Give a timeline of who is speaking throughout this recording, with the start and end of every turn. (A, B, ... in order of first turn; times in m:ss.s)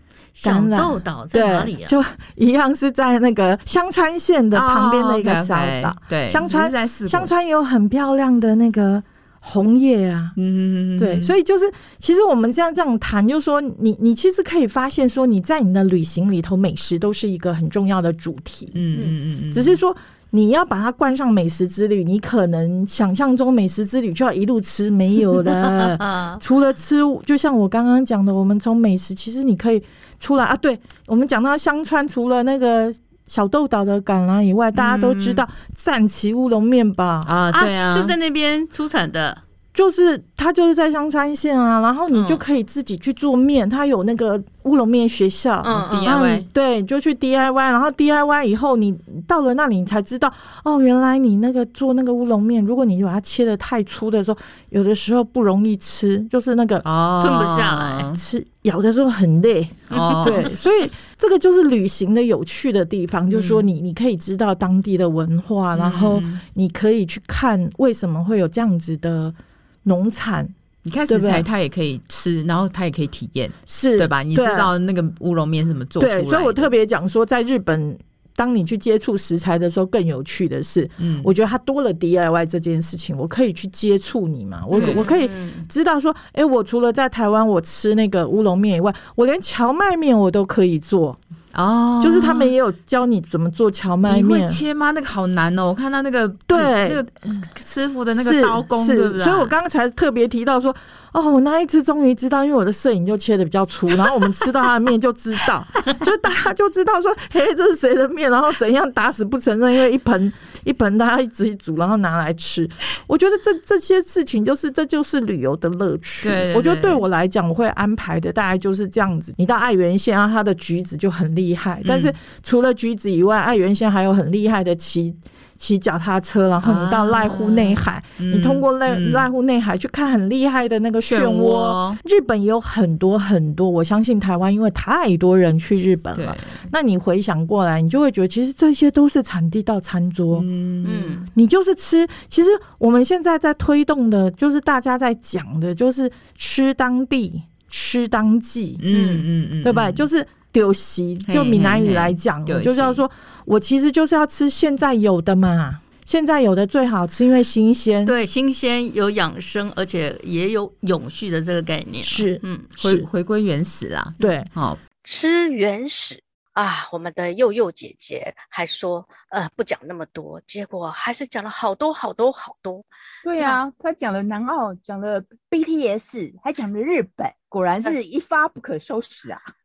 0:00.4-0:02.0 A
0:00.4-0:10.4 B
0:04.5-0:07.3 C
0:10.4-0:11.3 C
0:11.0-0:18.9 B
0:18.7-0:19.8 C
0:19.5-0:37.3 B
0:26.0-0:26.3 A
0:34.7-0:35.4 C
0:37.2-0:38.1 C
0:37.5-0:39.4 A
0:39.7-0:56.8 B
0:42.1-0:42.4 A
0:45.6-0:46.2 A
0:45.7-0:46.5 C
0:56.8-0:58.2 C
0:57.2-0:58.1 A
0:58.1-1:10.5 B
0:59.9-1:00.3 A
0:59.9-1:00.6 C
1:03.3-1:03.6 C
1:05.7-1:06.4 C
1:10.8-1:16.7 C
1:11.1-1:11.5 B
1:13.7-1:14.7 B
1:16.0-1:31.2 B
1:21.0-1:21.3 C
1:24.7-1:25.7 A
1:24.7-1:25.0 C
1:31.5-1:32.5 C
1:32.0-1:34.6 B
1:34.0-1:39.5 C
1:36.5-1:37.0 B
1:38.1-2:20.4 B
1:56.2-1:57.0 C
2:01.8-2:02.1 C
2:06.6-2:09.2 C
2:11.0-2:12.0 C
2:16.2-2:16.6 C
2:20.3-2:21.2 C
2:20.8-2:21.3 A
2:21.3-2:28.8 B
2:28.8-2:30.0 C
2:28.9-2:29.2 A
2:29.6-2:38.1 B
2:31.2-2:33.0 C
2:38.0-2:42.7 A
2:42.0-2:43.1 B
2:42.8-2:44.8 C
2:44.2-2:44.5 B
2:45.0-2:52.9 D
2:53.2-2:59.5 E